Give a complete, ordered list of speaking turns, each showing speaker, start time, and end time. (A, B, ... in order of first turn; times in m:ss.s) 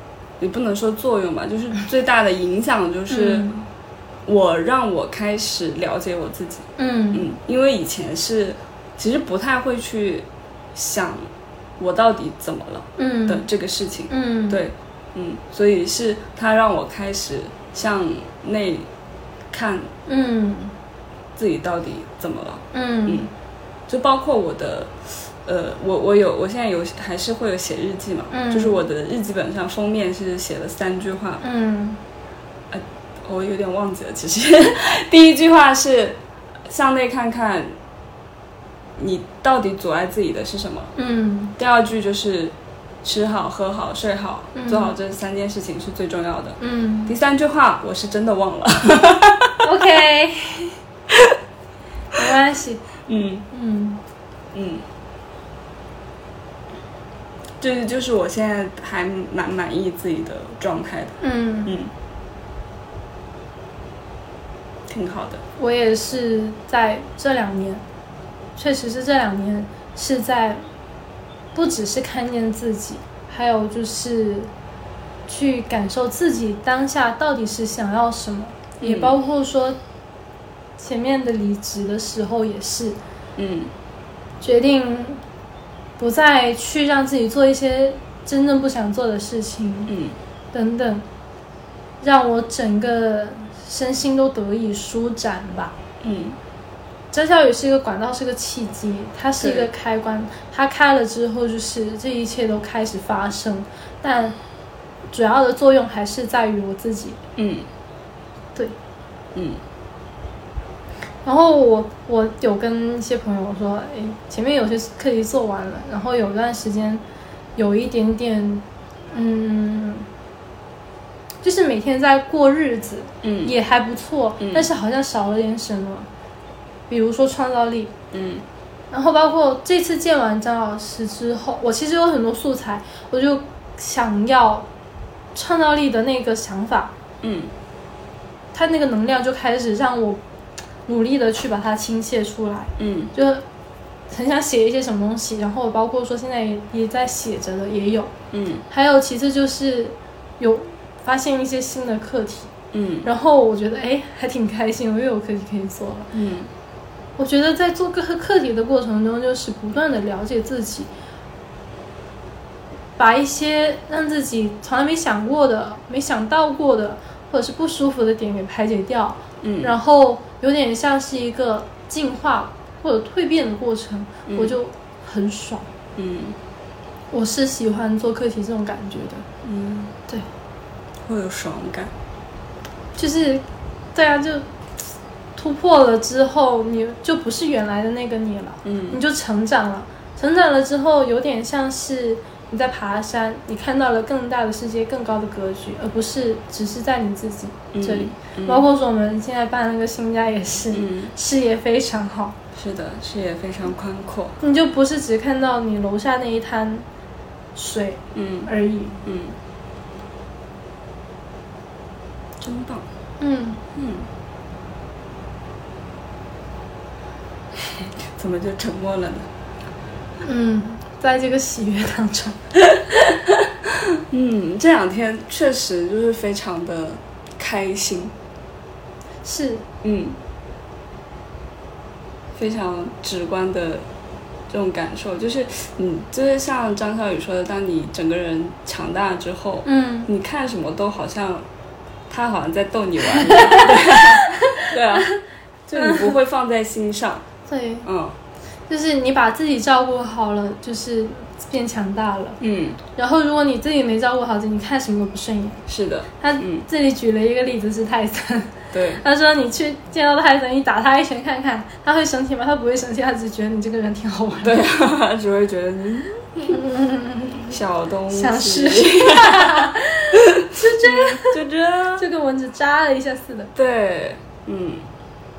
0:00.4-0:03.5 A
0:03.1-0:03.7 B
0:04.3-0:11.3 A
0:06.8-0:07.3 B
0:11.8-0:18.9 A
0:13.0-0:13.5 B
0:14.1-0:14.6 B
0:19.5-0:19.9 A
0:20.1-0:20.7 B
0:21.4-0:23.3 A
0:22.7-0:23.3 B
0:23.9-0:31.4 A
0:28.3-0:28.8 B
0:31.4-0:32.0 B
0:32.7-0:37.7 A
0:39.0-0:40.9 A
0:41.0-0:41.6 B
0:41.6-0:49.6 A
0:44.6-0:45.0 B
0:46.6-0:47.1 B
0:49.6-0:50.8 B
0:51.1-0:51.4 A
0:52.1-0:52.8 B
0:53.1-0:53.4 A
0:53.5-0:54.0 B
0:54.5-0:54.8 A
0:57.6-1:01.9 A
1:01.2-1:01.7 B
1:04.9-1:05.4 A
1:05.6-1:07.8 B
1:08.6-1:10.6 B
1:11.6-1:14.5 B
1:15.3-1:19.8 B
1:18.8-1:19.2 A
1:20.8-1:23.0 B
1:23.4-1:23.7 A
1:24.4-1:25.2 B
1:26.0-1:29.9 B
1:29.9-1:30.2 A
1:30.5-1:31.0 B
1:32.0-1:35.8 B
1:36.0-1:36.4 A
1:37.1-1:44.4 B
1:39.4-1:39.7 A
1:45.1-1:47.2 B
1:47.4-1:47.7 A
1:49.3-1:49.6 A
1:51.2-1:57.0 B
1:57.6-2:00.1 B
2:01.4-2:06.1 B
2:03.2-2:03.5 A
2:04.4-2:04.7 A
2:06.9-2:07.9 B
2:08.1-2:08.4 A
2:08.9-2:14.7 B
2:15.3-2:16.9 B
2:17.2-2:17.5 A
2:18.5-2:20.2 B
2:20.9-2:23.4 B
2:22.8-2:23.1 A
2:24.1-2:28.1 B
2:28.3-2:28.6 A
2:28.7-2:32.5 B
2:32.7-2:33.1 A
2:33.0-2:36.1 B
2:36.1-2:36.5 A
2:37.2-2:40.9 B
2:43.0-2:55.7 B
2:49.4-2:49.7 A
2:54.3-2:54.5 A
2:56.0-2:56.4 A
2:57.1-2:59.3 B
2:59.4-2:59.9 A
3:01.1-3:01.9 A
3:03.0-3:03.4 B
3:04.0-3:04.5 B
3:05.4-3:22.4 B
3:08.6-3:09.0 A
3:17.7-3:18.6 A
3:20.7-3:21.1 A
3:22.6-3:24.4 A
3:24.4-3:26.9 B
3:27.6-3:29.0 B
3:28.1-3:28.5 A
3:29.0-3:29.4 A
3:32.4-3:32.8 A
3:33.2-3:33.6 B
3:33.8-3:34.1 A
3:37.8-3:39.3 A
3:40.2-3:42.5 B
3:43.4-3:48.2 A
3:49.2-3:49.7 B
3:49.8-3:50.2 A
3:52.4-3:53.8 A
3:54.5-4:01.5 A
3:59.7-4:00.1 B
4:02.1-4:05.1 A
4:03.2-4:05.1 B
4:05.7-4:07.2 A
4:05.7-4:06.2 B
4:07.5-4:07.9 B
4:07.8-4:08.2 A
4:08.7-4:12.4 B
4:12.4-4:12.8 A
4:13.0-4:15.6 B
4:15.7-4:16.7 A
4:16.2-4:24.7 B
4:18.7-4:19.0 A
4:24.4-4:26.6 A
4:26.5-4:27.6 B
4:27.5-4:32.1 A
4:28.1-4:31.4 B
4:32.0-4:33.5 B
4:33.6-4:34.9 A